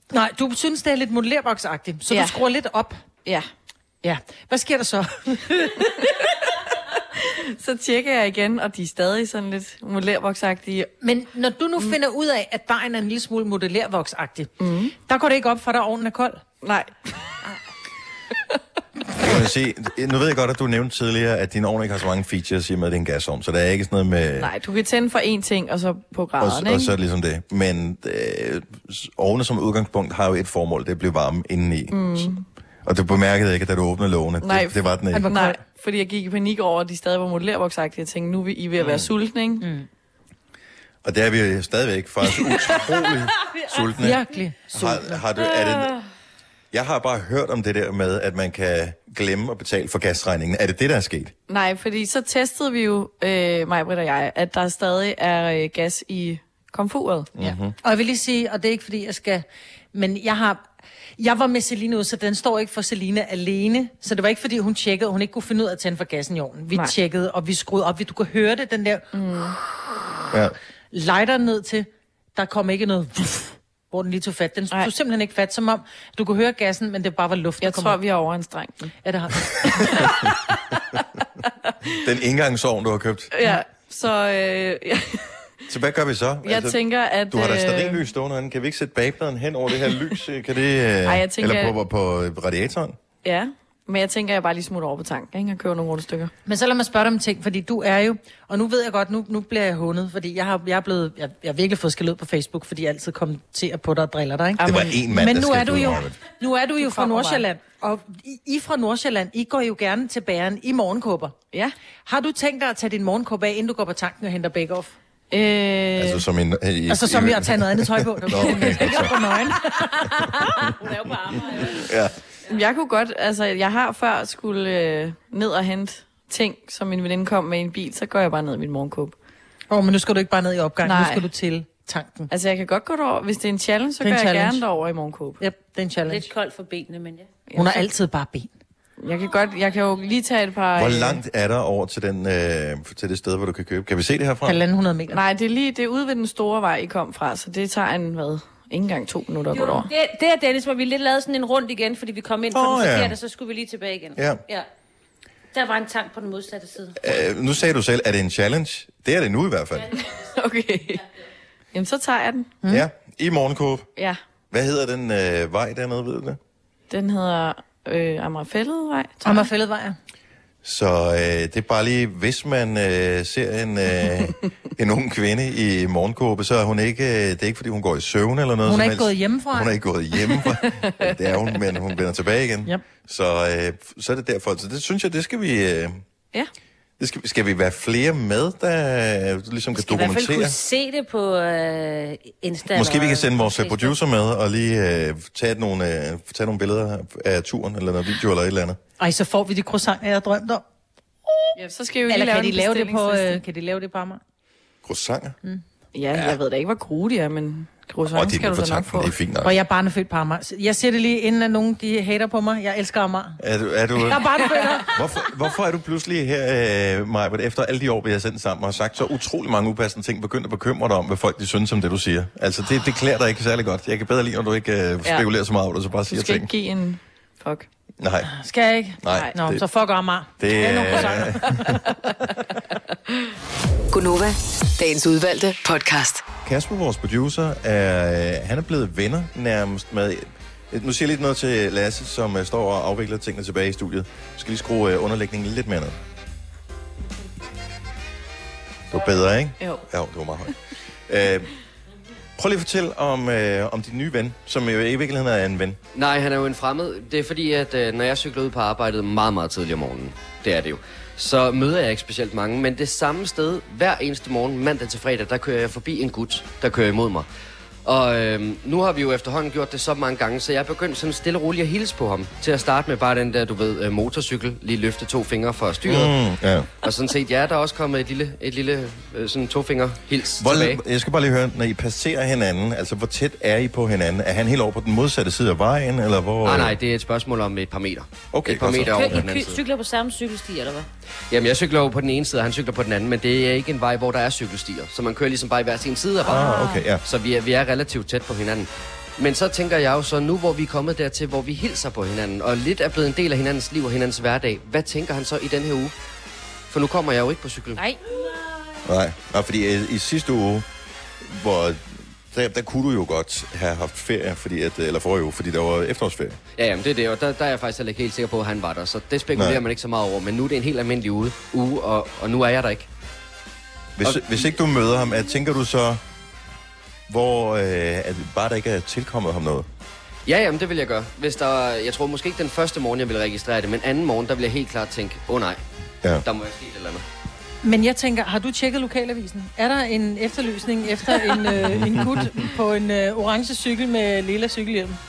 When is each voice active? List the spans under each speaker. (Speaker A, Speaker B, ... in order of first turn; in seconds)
Speaker A: 0.1-3.0, 4.0-6.1, 11.0-16.4, 35.1-35.6, 39.6-39.9, 44.0-45.2, 57.8-60.6, 61.2-69.1, 70.9-78.0, 79.0-80.1, 96.5-111.3, 112.0-114.9, 116.9-120.1, 129.7-132.3, 134.0-134.6, 135.4-136.3, 137.5-138.5, 144.4-145.2, 169.2-169.9, 178.6-179.7, 199.0-200.6, 202.1-204.2, 209.4-213.4, 214.0-214.9, 228.3-231.8, 337.6-345.0
Speaker B: 2.1-2.4, 7.1-10.9, 14.6-14.9, 16.6-16.9, 24.4-26.9, 31.9-32.4, 34.4-39.6, 51.5-57.3, 69.1-69.5, 77.6-78.9, 83.3-85.4, 86.4-88.0, 91.0-91.7, 93.2-96.3, 104.6-105.0, 106.8-107.4, 115.3-116.2, 122.5-129.1, 130.8-131.2, 132.3-135.4, 137.5-137.8, 139.0-141.2, 145.1-149.9, 160.2-161.0, 161.7-162.5, 166.9-169.5, 201.6-203.4, 205.9-209.1, 226.1-227.7, 296.4-296.7
Speaker C: 19.1-24.5, 26.4-32.3, 32.8-35.3, 38.8-39.1, 41.0-46.0, 46.7-51.3, 57.4-57.7, 81.9-83.3, 85.7-86.8, 87.3-93.0, 104.6-106.2, 115.9-119.3, 121.7-122.1, 140.7-144.6, 152.5-153.2, 154.2-154.4, 157.0-160.0, 162.7-163.9, 164.5-166.4, 170.6-186.0, 187.0-190.5, 192.7-198.8, 204.8-205.4, 208.1-209.6, 213.4-214.3, 214.9-226.5, 228.0-228.3, 229.0-229.6, 230.4-231.8, 236.4-246.0, 248.9-250.5, 251.1-251.5, 252.4-255.8, 275.8-276.7, 280.4-286.8, 288.3-289.3, 296.2-297.0, 308.8-310.6, 311.2-316.4, 319.3-319.6, 324.0-326.0, 327.1-329.7, 341.7-342.0
Speaker D: 43.5-43.9, 45.4-45.9, 120.5-121.8, 136.1-137.3, 149.5-154.7, 155.5-157.0, 189.7-193.9, 288.8-290.9, 307.8-308.7
Speaker E: 233.9-236.2
Speaker F: 255.9-267.3, 267.8-276.2, 276.8-280.8, 286.4-289.6, 291.3-296.5, 297.0-305.9, 306.7-307.8, 316.6-322.9, 330.2-335.6, 336.2-337.0